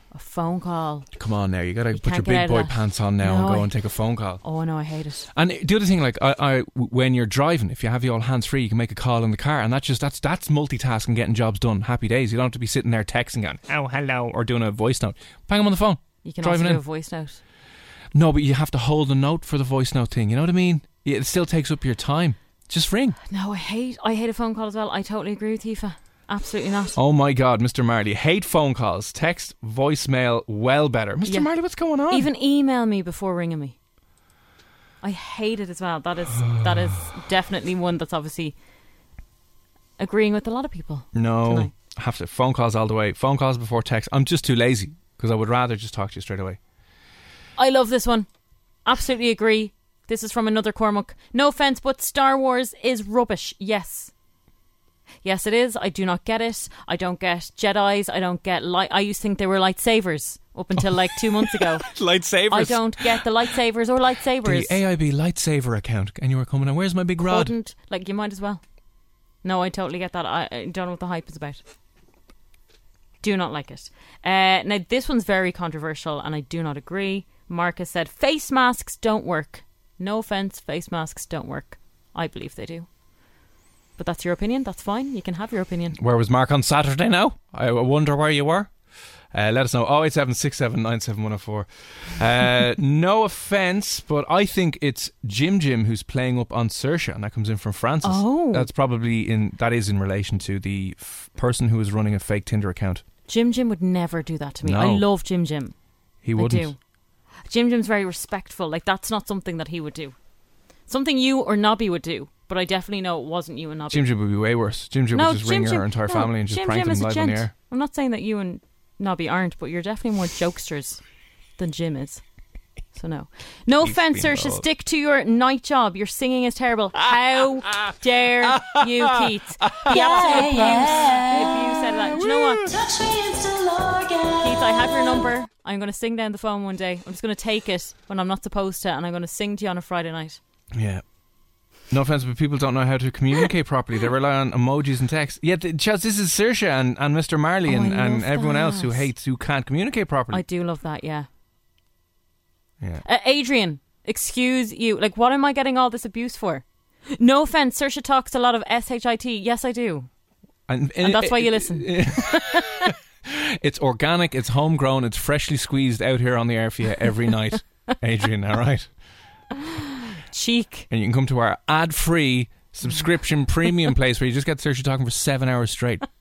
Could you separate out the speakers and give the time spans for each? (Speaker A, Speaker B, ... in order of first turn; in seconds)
Speaker A: 0.1-1.1, 1.9-3.7, 4.4-5.3, 16.2-17.4, 23.3-27.0, 32.1-33.8, 35.0-38.5, 40.0-41.7, 47.5-48.3, 48.8-54.1, 55.2-61.9, 62.5-64.8, 67.2-68.6, 69.4-71.6, 73.2-82.9, 84.0-86.0, 98.0-98.7, 103.3-105.7, 106.3-106.8, 107.5-110.1, 110.9-114.1, 115.1-121.0, 121.6-122.2, 122.9-132.6, 134.4-140.4, 147.7-149.1, 150.3-151.3, 153.0-156.6, 157.1-160.1, 161.0-162.9, 169.6-170.9
Speaker B: 1.1-4.4, 5.3-16.8, 18.1-23.2, 26.9-32.3, 36.4-37.1, 41.1-46.6, 60.8-63.2, 64.4-67.5, 85.9-88.7, 89.3-103.0, 104.6-105.0, 106.2-106.7, 113.9-117.5, 123.8-124.7, 127.7-132.8, 140.7-141.0, 141.9-150.4, 160.7-168.9, 170.9-176.1
Speaker C: 129.9-131.4, 132.7-135.2